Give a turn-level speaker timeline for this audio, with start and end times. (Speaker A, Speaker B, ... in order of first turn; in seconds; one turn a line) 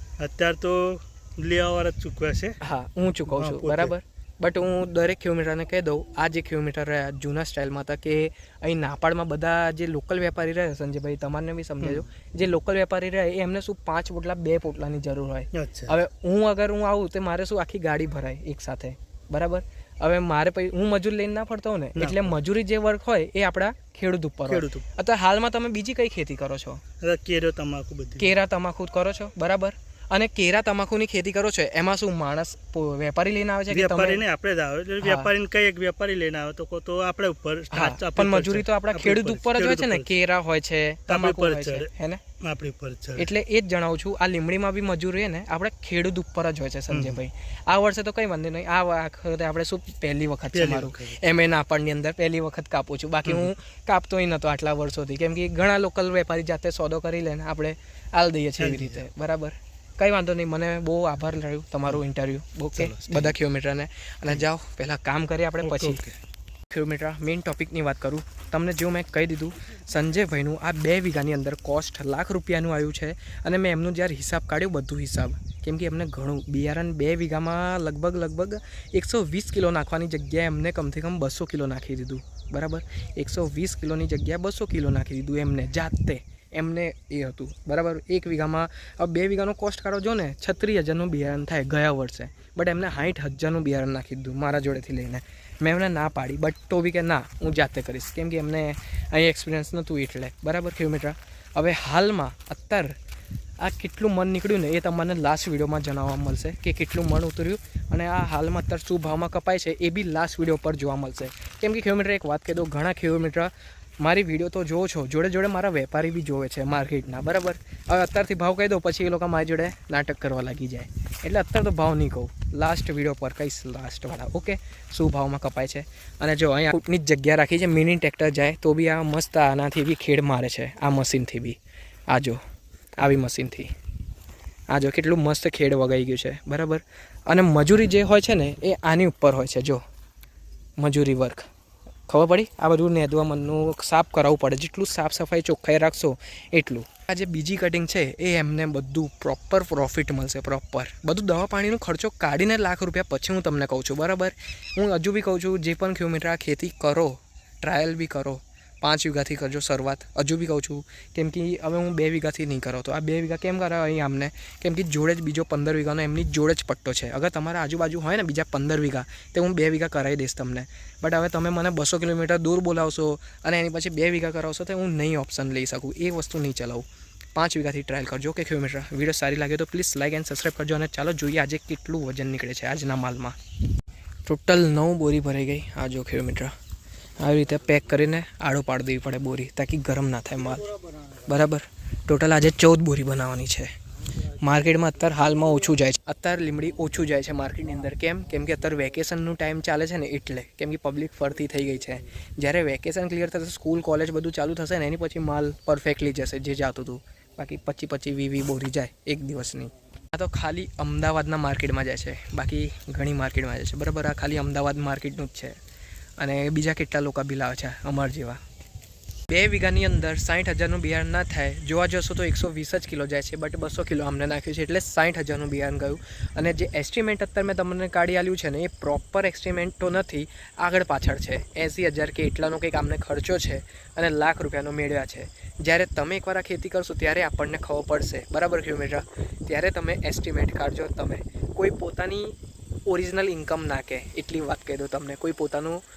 Speaker A: 0.2-2.6
Speaker B: 2.6-26.8
Speaker A: 3.3-3.9
Speaker A: 15.5-15.9
Speaker A: 21.9-22.4
Speaker A: 24.5-24.9
Speaker A: 27.0-28.3
Speaker B: 28.2-34.2
Speaker A: 33.7-40.1
Speaker B: 35.0-35.3
Speaker B: 37.7-42.2
Speaker A: 41.1-41.9
Speaker A: 42.4-43.3
Speaker B: 43.2-66.0
Speaker A: 46.9-47.2
Speaker A: 50.5-51.2
Speaker A: 53.2-53.5
Speaker A: 58.6-59.0
Speaker A: 62.8-63.4
Speaker A: 65.6-66.2
Speaker B: 66.7-103.0
Speaker B: 103.6-131.6
Speaker B: 132.1-132.4
Speaker B: 133.0-133.7
Speaker B: 134.7-139.8
Speaker B: 140.8-141.5
Speaker B: 142.1-183.4
Speaker B: 184.2-186.5
Speaker B: 187.2-190.7
Speaker B: 191.2-193.7
Speaker B: 194.3-215.6
Speaker B: 216.2-218.4
Speaker B: 219.3-242.3
Speaker B: 242.8-245.8